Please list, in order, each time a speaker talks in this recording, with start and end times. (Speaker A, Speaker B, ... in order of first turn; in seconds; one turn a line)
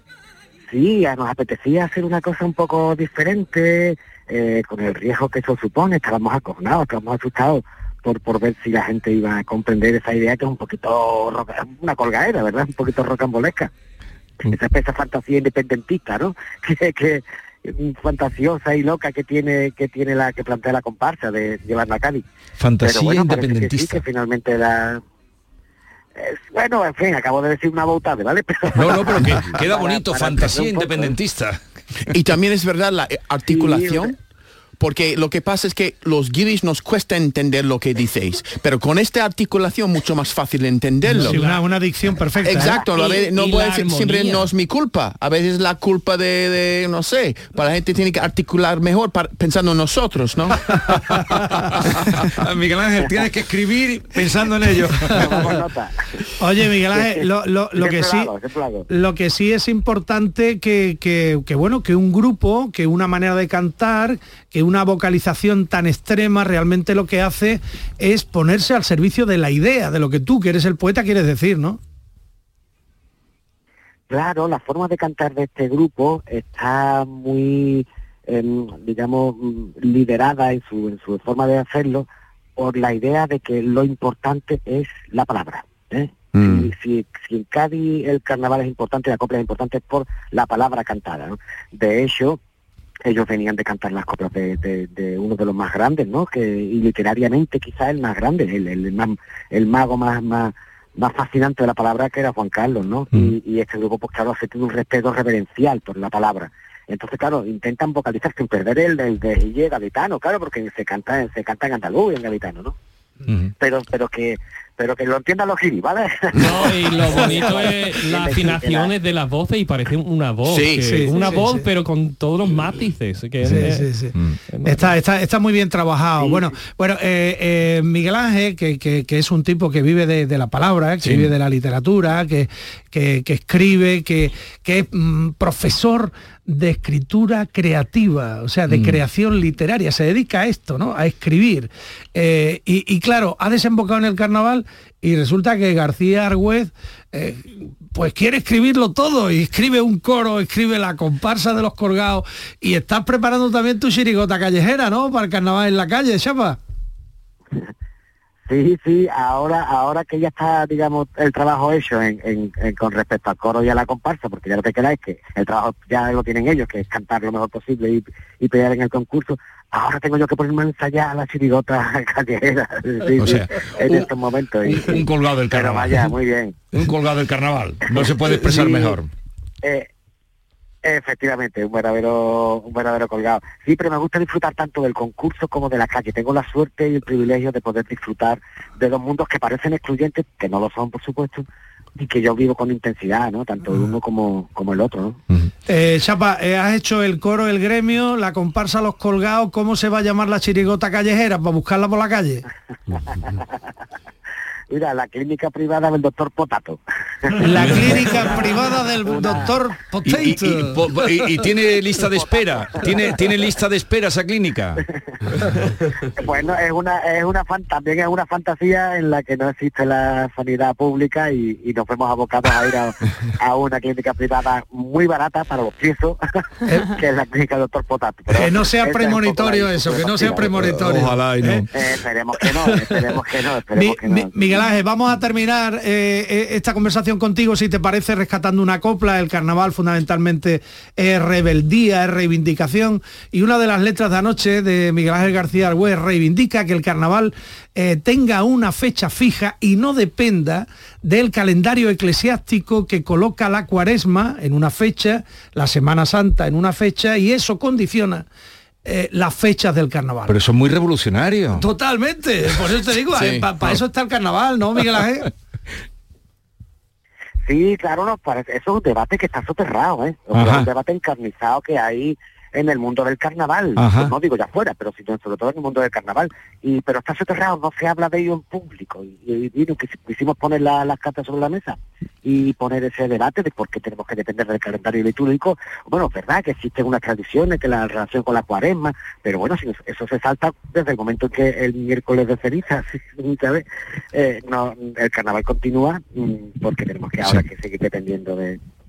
Speaker A: 0.7-13.7
Speaker A: 14.4-22.2
Speaker B: 22.6-24.0
Speaker A: 22.8-25.0
Speaker A: 26.1-31.1
Speaker B: 28.7-31.6
Speaker C: 32.1-34.1
Speaker A: 33.5-34.1
Speaker C: 34.8-41.4
Speaker D: 41.1-42.9
Speaker E: 41.1-41.6
Speaker C: 42.4-50.7
Speaker E: 42.9-44.5
Speaker B: 51.7-55.5
Speaker A: 55.1-56.0
Speaker D: 56.4-58.3
Speaker A: 56.9-58.9
Speaker D: 58.9-71.8
Speaker A: 74.1-92.4
Speaker C: 86.3-86.7
Speaker A: 93.0-112.7
Speaker B: 113.3-113.5
Speaker A: 113.6-118.9
Speaker E: 116.3-123.9
Speaker C: 120.5-121.0
Speaker D: 120.7-121.7
Speaker D: 123.4-156.6
Speaker E: 124.5-124.9
Speaker A: 126.2-126.5
Speaker B: 131.0-131.3
Speaker B: 138.7-139.0
Speaker A: 158.5-176.5
Speaker B: 173.1-174.1
Speaker B: 174.6-176.1
Speaker B: 176.7-179.1
Speaker A: 179.6-179.9
Speaker A: 180.8-191.4
Speaker A: 192.0-195.2
Speaker D: 195.7-202.4
Speaker A: 204.7-209.5
Speaker D: 207.3-211.3
Speaker B: 210.1-214.8
Speaker A: 212.2-212.8
Speaker A: 216.2-226.2
Speaker A: 226.9-230.5
Speaker D: 228.3-231.7
Speaker B: 230.4-231.7
Speaker A: 231.7-234.6
Speaker D: 232.5-233.0
Speaker D: 233.7-258.2
Speaker D: 258.8-260.4
Speaker B: 260.3-261.6
Speaker D: 261.5-265.3
Speaker C: 263.1-263.5
Speaker A: 267.4-298.6
Speaker B: 270.3-270.7
Speaker B: 273.8-274.1